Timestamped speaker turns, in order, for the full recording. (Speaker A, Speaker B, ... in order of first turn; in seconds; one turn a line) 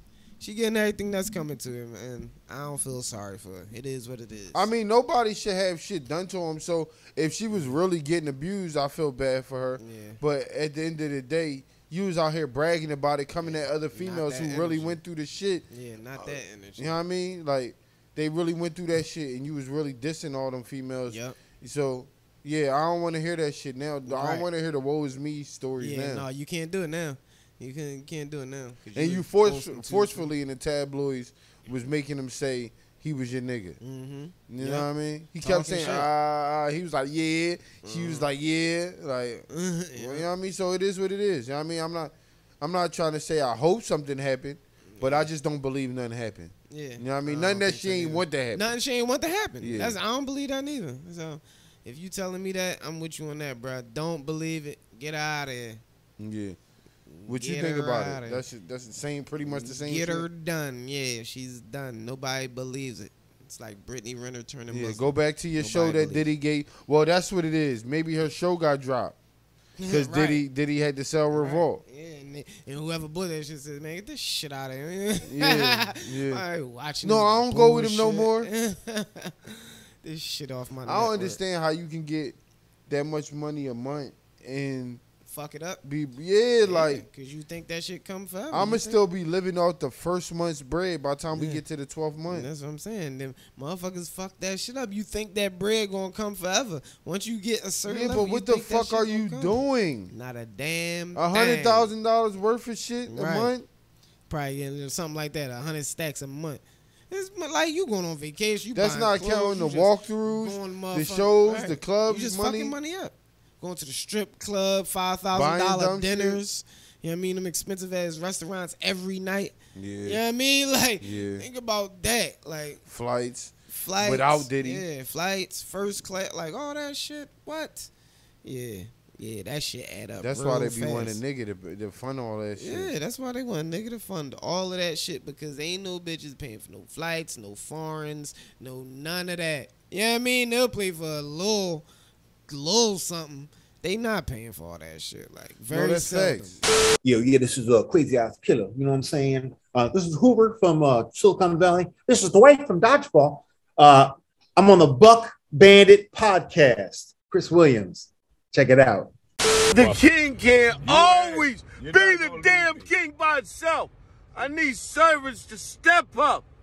Speaker A: 0.4-4.7
Speaker B: 4.5-15.6
Speaker A: 9.8-10.2
Speaker A: 13.3-15.0
Speaker A: 15.7-17.0
Speaker B: 16.2-26.2
Speaker A: 21.1-21.4
Speaker A: 24.1-24.5
Speaker A: 25.8-30.3
Speaker B: 28.9-33.8
Speaker A: 33.8-36.1
Speaker B: 34.5-48.7
Speaker A: 37.8-38.3
Speaker A: 39.5-40.2
Speaker A: 45.0-45.3
Speaker A: 46.7-55.8
Speaker B: 49.6-50.0
Speaker B: 56.2-56.6
Speaker A: 57.1-58.4
Speaker B: 57.3-60.3
Speaker A: 59.4-66.3
Speaker B: 64.7-69.2
Speaker A: 69.8-70.4
Speaker B: 69.8-71.8
Speaker A: 71.3-81.4
Speaker B: 75.3-76.4
Speaker B: 77.0-78.5
Speaker B: 80.8-82.3
Speaker B: 82.9-85.0
Speaker A: 85.2-85.8
Speaker B: 85.8-87.0
Speaker A: 86.6-89.0
Speaker B: 88.5-92.5
Speaker A: 91.3-91.6
Speaker A: 92.2-101.9
Speaker B: 97.8-100.1
Speaker B: 101.1-103.7
Speaker A: 103.1-103.5
Speaker A: 104.3-119.5
Speaker B: 108.7-112.7
Speaker B: 115.3-116.4
Speaker B: 119.7-120.2
Speaker A: 120.0-122.8
Speaker B: 121.0-121.5
Speaker B: 122.9-124.8
Speaker A: 123.7-127.9
Speaker A: 128.4-131.2
Speaker B: 130.2-132.9
Speaker A: 132.6-141.8
Speaker A: 142.5-146.6
Speaker B: 145.7-146.6
Speaker C: 147.0-159.1
Speaker D: 159.7-166.4
Speaker B: 159.8-160.1
Speaker B: 160.8-162.9